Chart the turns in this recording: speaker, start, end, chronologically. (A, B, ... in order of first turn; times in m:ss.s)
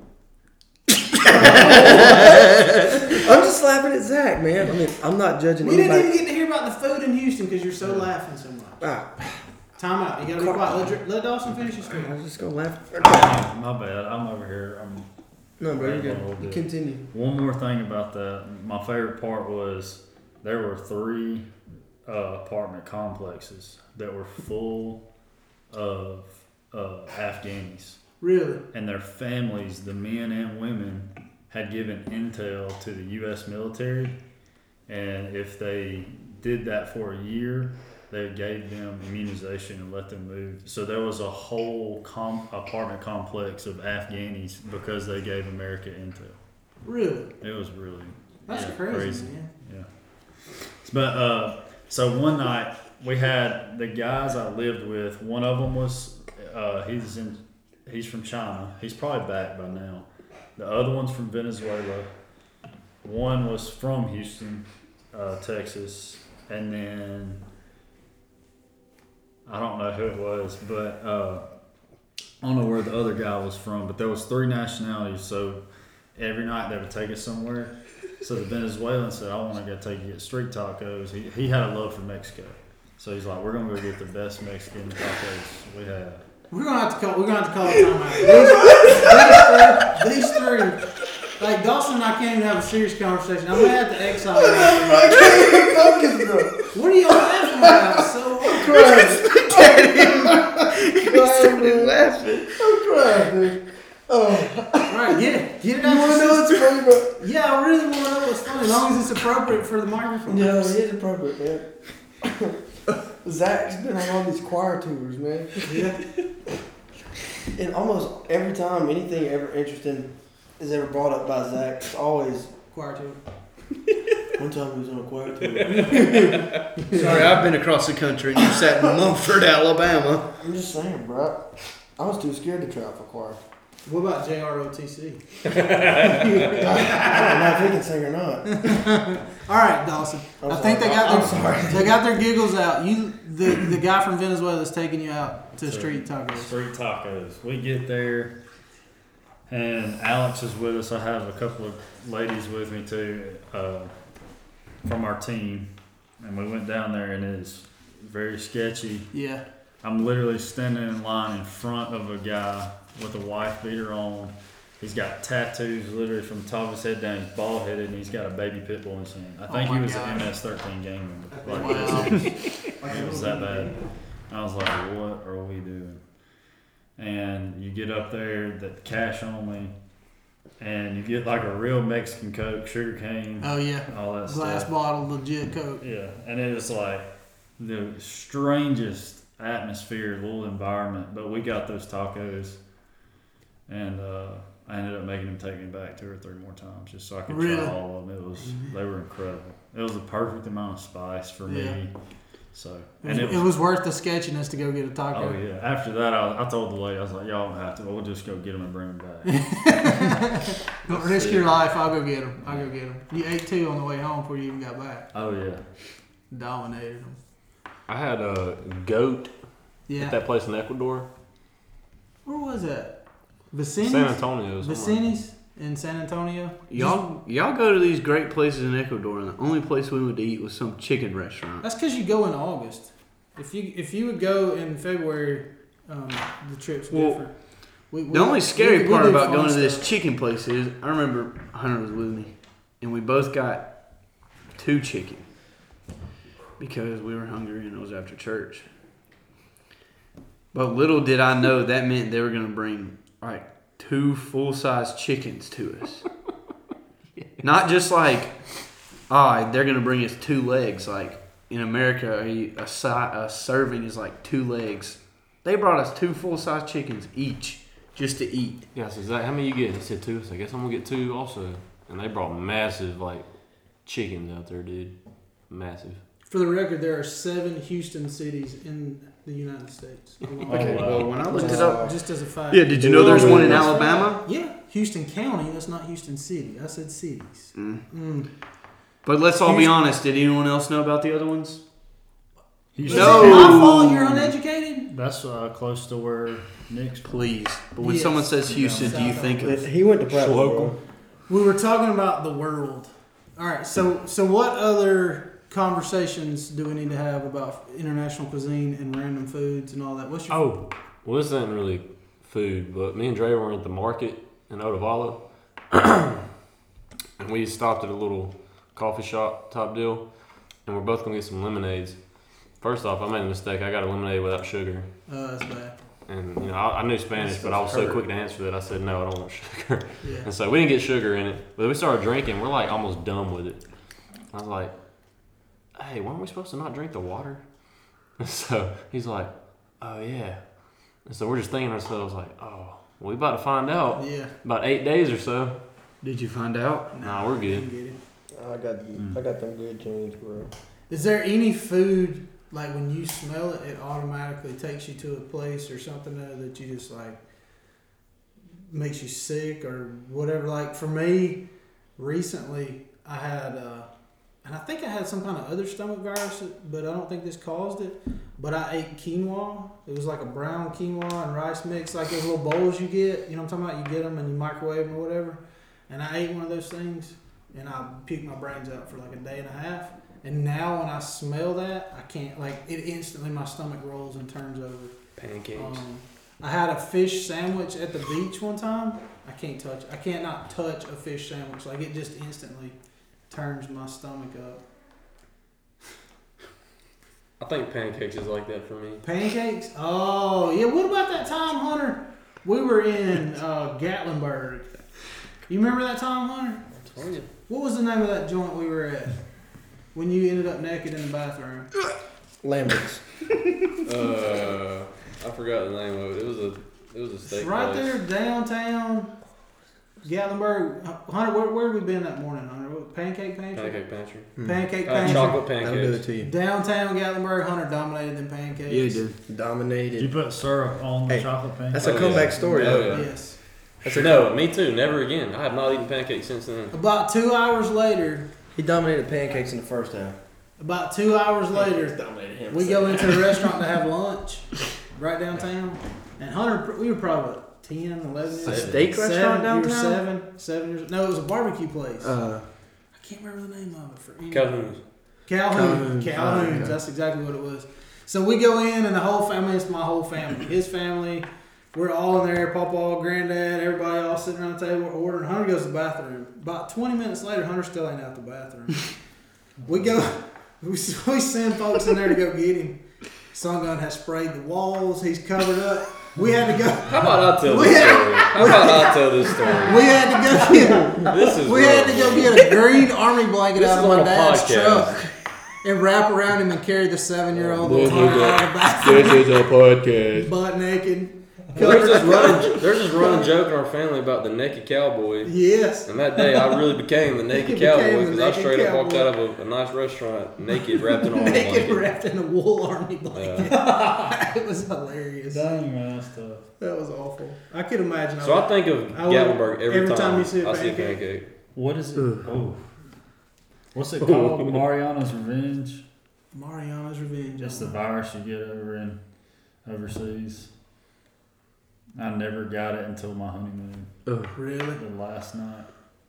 0:01.2-0:06.1 A
0:01.2-0:02.3 B
0:05.6-0:08.8 B
0:08.8-0:09.4 A
0:09.8-0:12.1 B
0:10.4-0:10.8 A
0:11.9-0:13.4 A
0:13.0-0:15.1 C
0:15.6-0:17.0 A
0:15.7-0:21.5 C
0:22.0-0:25.0 C
0:25.7-0:28.0 C
0:28.2-0:28.6 B
0:28.7-0:34.2 C
0:34.9-0:46.4 C
0:46.8-0:47.3 B
0:47.4-0:49.9 C
0:48.5-0:49.5 B
0:50.6-1:02.1 C
1:03.0-1:07.4 C
1:09.4-1:11.4 C
1:12.4-1:15.6 C
1:16.2-1:26.2 C
1:26.5-1:30.8 B
1:28.7-1:28.9 A
1:31.4-1:35.2 B
1:34.3-1:36.6 A
1:35.2-1:35.5 D
1:36.7-1:39.0 B
1:38.4-1:45.2 A
1:38.7-1:42.6 D
1:44.9-1:50.7 B
1:45.8-1:47.2 A
1:50.3-1:51.7 A
1:52.2-1:55.7 A
1:55.6-1:56.0 B
1:57.5-2:02.5 A
2:02.7-2:03.2 B
2:04.3-2:07.4 A
2:05.6-2:06.6 E
2:06.8-2:07.3 B
2:06.9-2:10.3 D
2:10.4-2:11.4 A
2:12.0-2:13.4 A
2:13.8-2:17.5 B
2:15.5-2:16.5 E
2:16.6-2:18.8 A
2:18.5-2:26.5 B
2:20.4-2:22.0 A
2:25.6-2:28.4 C
2:29.5-2:33.9 C
2:34.8-2:39.1 C
2:39.1-2:39.4 B
2:39.8-2:53.8 C
2:49.5-2:50.3 B
2:51.4-2:52.0 A
2:51.5-2:52.3 B
2:52.8-2:53.7 A
2:54.3-2:56.0 C
2:57.0-2:59.7 C
3:00.6-3:04.7 C
3:03.4-3:05.8 B
3:05.8-3:12.6 C
3:13.7-3:21.9 C
3:17.3-3:17.8 B
3:18.4-3:18.7 B
3:21.5-3:21.8 B
3:22.5-3:23.5 C
3:23.0-3:25.4 B
3:25.1-3:30.1 C
3:29.2-3:35.1 B
3:30.9-3:31.4 E
3:35.1-3:35.6 C
3:36.3-3:37.2 B
3:37.9-3:39.3 E
3:39.9-3:40.2 B
3:39.9-3:41.1 E
3:42.2-3:43.0 B
3:43.5-3:47.0 B
3:43.8-3:45.0 E
3:46.7-3:51.6 D
3:51.6-3:57.3 B
3:56.9-3:57.3 D
3:57.9-3:59.9 B
3:58.1-4:05.2 D
4:06.6-4:08.6 D
4:10.5-4:16.1 D
4:17.4-4:18.4 D
4:19.1-4:28.6 D
4:28.7-4:33.2 E
4:33.8-4:34.9 E
4:35.5-4:36.0 E
4:36.3-4:48.3 B
4:40.4-4:41.3 C
4:40.5-4:42.0 D
4:41.2-4:42.0 A
4:42.5-4:44.2 D
4:42.7-4:43.7 A
4:43.0-4:43.7 C
4:47.6-4:47.8 D
4:49.0-4:51.6 D
4:49.4-4:49.7 B
4:52.7-4:54.3 C
4:52.8-4:53.9 D
4:52.8-4:54.9 B
4:54.8-4:57.1 C
4:57.0-4:59.6 D
4:57.8-4:59.6 B
4:58.4-4:59.2 C
4:59.4-5:00.8 A
5:00.1-5:00.7 E
5:01.3-5:10.4 B
5:10.3-5:15.2 E
5:15.7-5:16.1 E
5:17.2-5:20.0 E
5:20.6-5:24.9 E
5:25.1-5:25.7 B
5:26.1-5:33.6 E
5:27.2-5:28.0 D
5:30.0-5:30.3 B
5:34.3-5:34.7 E
5:35.7-5:37.4 E
5:38.2-5:40.4 E
5:41.0-5:45.5 E
5:44.0-5:44.3 B
5:46.0-5:46.9 D
5:46.9-5:48.0 B
5:47.0-5:47.6 E
5:48.3-5:50.5 A
5:50.9-5:57.2 B
5:58.7-6:01.4 B
6:02.0-6:03.9 B
6:04.4-6:24.9 B
6:25.2-6:25.8 E
6:25.5-6:32.8 B
6:33.3-6:34.6 B
6:37.4-6:39.0 E
6:39.0-6:44.7 B
6:45.5-6:46.6 B
6:46.8-6:47.3 E
6:47.5-6:49.2 B
6:49.9-6:51.7 B
6:52.4-6:53.0 A
6:53.8-6:58.0 E
6:57.3-6:59.1 B
7:00.0-7:03.8 B
7:03.5-7:06.0 E
7:04.4-7:06.3 A
7:04.4-7:05.4 B
7:06.2-7:09.0 B
7:08.7-7:09.2 D
7:09.3-7:10.1 A
7:10.0-7:12.8 C
7:11.1-7:13.1 A
7:11.8-7:13.1 E
7:12.6-7:13.0 D
7:12.9-7:13.4 B
7:13.8-7:14.3 A
7:13.8-7:16.7 E
7:16.7-7:18.3 B
7:18.5-7:20.2 A
7:20.6-7:32.2 B
7:21.5-7:23.4 A
7:28.4-7:28.8 E
7:28.4-7:30.0 D
7:28.7-7:29.0 A
7:32.0-7:32.4 A
7:32.9-7:34.5 B
7:34.3-7:34.8 E
7:35.2-7:48.9 B
7:35.5-7:36.8 A
7:49.6-8:09.4 B
7:56.8-8:00.2 E
8:01.0-8:02.5 E
8:03.5-8:05.1 E
8:07.4-8:08.4 E
8:07.6-8:10.3 D
8:10.1-8:13.3 B
8:11.5-8:15.3 E
8:15.2-8:16.6 B
8:15.8-8:21.8 E
8:17.3-8:19.1 B
8:21.1-8:25.4 B
8:23.1-8:23.5 E
8:23.4-8:24.2 C
8:25.3-8:26.5 C
8:26.6-8:31.0 B
8:28.2-8:31.3 E
8:31.5-8:32.7 C
8:32.0-8:32.3 D
8:33.7-8:35.8 C
8:34.0-8:34.6 E
8:36.3-8:37.8 B
8:37.4-8:39.0 C
8:39.6-8:40.5 C
8:42.0-8:43.9 C
8:44.0-8:44.3 D
8:44.3-8:44.8 B
8:44.7-8:45.7 C